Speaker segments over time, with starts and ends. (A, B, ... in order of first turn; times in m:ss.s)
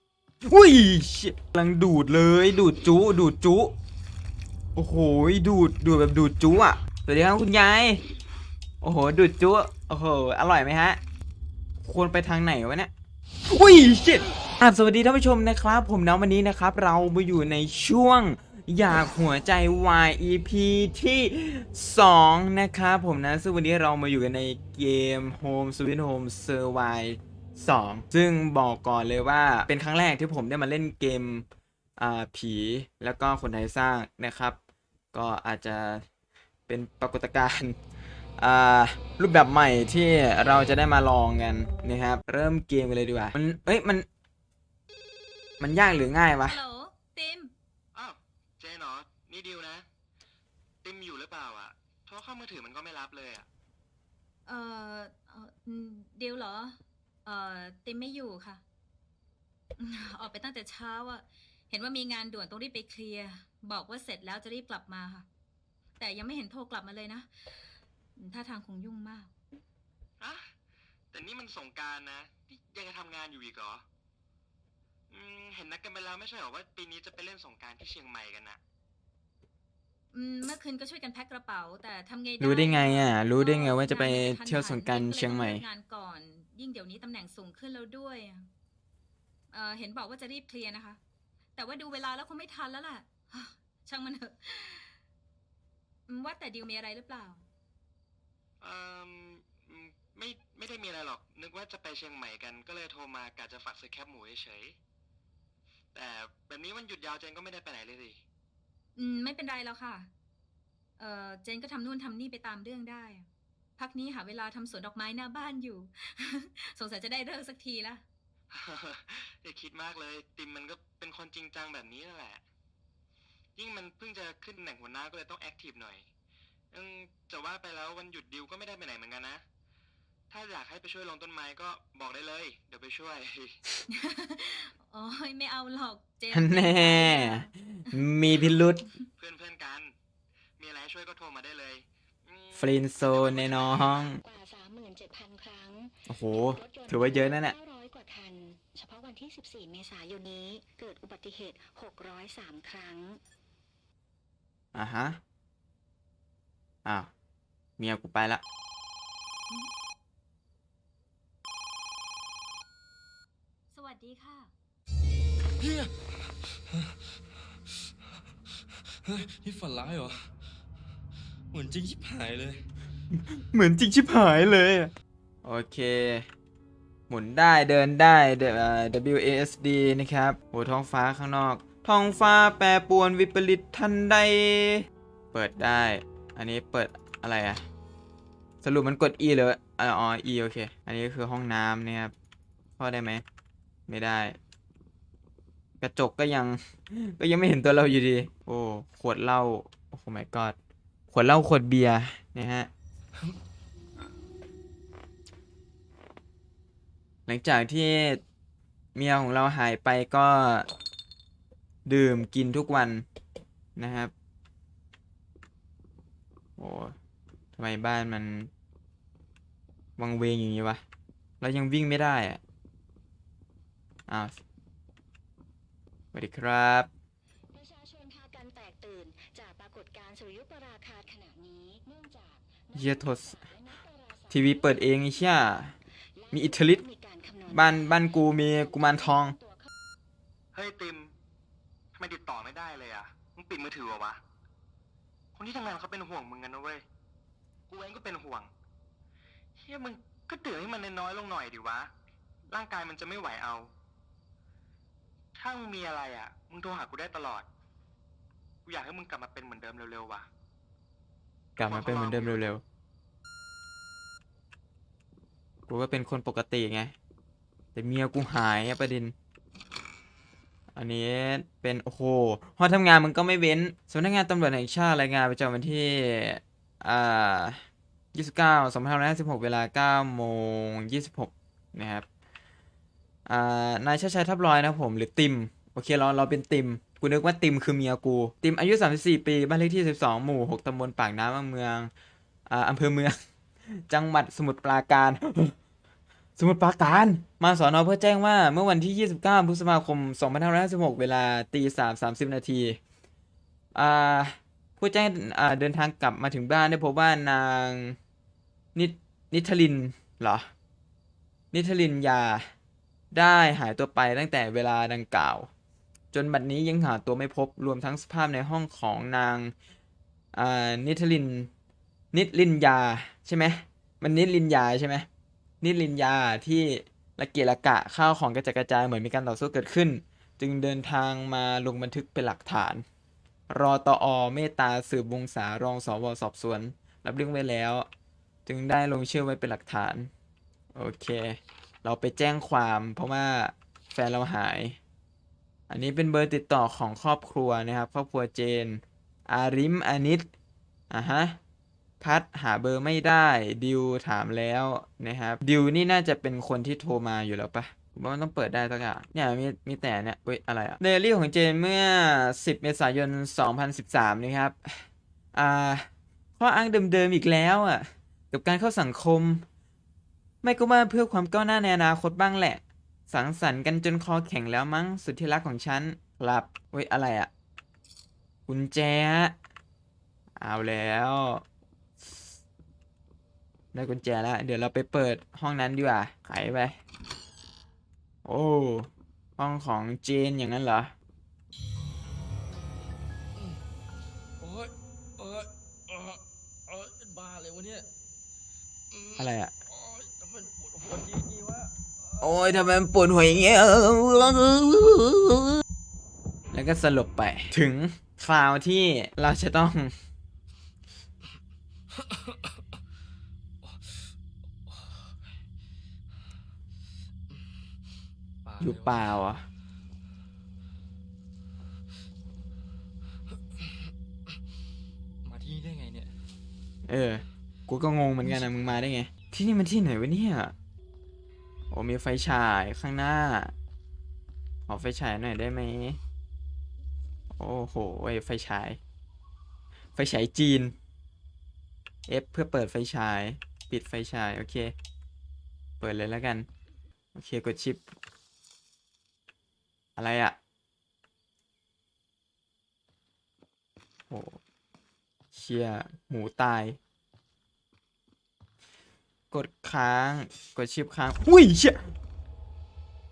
0:00.5-0:03.7 A
0:04.8-0:08.0 A
0:08.8-0:11.0 A
0:11.8-0:12.9 A
0:13.5-0:31.5 A
0:32.0-0:34.6 A
0:35.1-0:36.0 A
0:36.7-0:37.8 A
0:38.4-0:44.1 A
0:45.6-0:46.6 A
0:46.4-0:47.5 B
0:47.9-0:49.9 C
0:50.8-0:53.5 C
0:54.5-0:58.6 B
0:59.8-1:05.3 B
1:06.0-1:07.3 B
1:08.2-1:09.3 B
1:10.2-1:10.5 C
1:11.1-1:13.8 C
1:15.1-1:18.6 C
1:20.1-1:28.5 B
1:22.4-1:25.7 A
1:29.5-1:31.0 B
1:31.6-1:35.0 B
1:36.1-1:37.4 B
1:38.6-1:44.8 C
1:45.9-1:48.2 C
1:49.0-1:50.1 B
1:51.0-1:58.0 B
1:58.5-2:02.4 C
2:03.6-2:06.1 C
2:06.7-2:09.4 C
2:10.3-2:13.6 C
2:13.9-2:18.0 B
2:16.3-2:18.8 A
2:19.2-2:19.9 C
2:20.6-2:24.0 C
2:22.6-2:24.2 A
2:24.2-2:33.2 D
2:26.1-2:27.6 A
2:34.7-2:35.2 A
2:36.8-2:37.1 A
2:37.8-2:38.4 A
2:43.7-2:44.5 B
2:45.6-2:46.9 E
2:48.9-2:50.4 E
2:51.5-2:52.7 E
2:53.1-2:54.9 A
2:55.4-2:56.3 A
2:57.1-3:07.6 A
3:08.6-3:12.1 A
3:12.8-3:13.2 A
3:13.9-3:14.4 A
3:15.8-3:20.6 A
3:21.1-3:22.7 A
3:27.3-3:28.2 A
3:29.0-3:30.7 A
3:31.9-3:33.0 A
3:33.8-3:34.1 A
3:36.6-3:37.0 A
3:37.6-3:38.5 A
3:40.0-3:40.8 A
3:41.4-3:42.4 A
3:44.1-3:44.4 A
3:46.1-3:46.9 A
3:47.5-3:54.5 D
3:52.7-3:53.4 A
3:54.3-3:55.8 A
3:56.2-3:57.7 D
3:56.3-3:56.8 A
3:57.5-3:59.4 A
3:58.8-3:59.7 D
4:00.5-4:01.1 C
4:02.0-4:04.2 C
4:05.4-4:06.8 C
4:07.7-4:08.5 C
4:09.6-4:11.9 C
4:12.5-4:13.7 C
4:15.4-4:17.5 C
4:18.7-4:20.3 C
4:21.6-4:22.6 A
4:21.6-4:22.5 C
4:25.7-4:27.0 A
4:27.8-4:29.1 A
4:30.8-4:37.6 A
4:38.1-4:42.0 A
4:43.3-4:51.9 A
4:52.5-4:53.2 A
4:53.7-4:55.6 A
4:56.4-5:02.8 A
5:03.8-5:08.0 A
5:08.8-5:10.5 A
5:11.5-5:12.5 A
5:13.1-5:15.5 A
5:16.1-5:19.5 A
5:20.3-5:21.5 A
5:22.1-5:25.1 A
5:25.6-5:32.8 A
5:33.5-5:37.9 A
5:38.5-5:40.1 A
5:40.8-5:44.8 A
5:45.7-5:50.3 A
5:50.9-5:51.4 A
5:52.0-6:05.9 A
6:06.4-6:09.4 A
6:10.4-6:17.3 A
6:18.5-6:19.3 A
6:20.4-6:21.4 A
6:23.7-6:26.8 A
6:28.2-6:30.9 A
6:33.4-6:33.6 E
6:34.4-6:37.9 E
6:38.9-6:42.2 E
6:39.2-6:39.5 A
6:42.2-6:45.6 A
6:46.5-6:49.9 A
6:52.0-6:52.5 E
6:53.6-6:54.1 E
6:54.7-6:55.1 E
6:57.3-6:57.6 E
6:58.4-6:59.1 E
6:58.6-6:59.4 A
7:03.6-7:03.9 E
7:05.2-7:06.2 E
7:06.9-7:10.5 A
7:11.7-7:13.5 A
7:14.7-7:16.0 A
7:17.3-7:18.8 A
7:20.0-7:20.7 A
7:22.1-7:24.7 A
7:25.8-7:26.5 A
7:27.2-7:27.8 A
7:30.0-7:30.4 A
7:34.1-7:34.4 A
7:35.3-7:36.8 A
7:39.3-7:41.9 A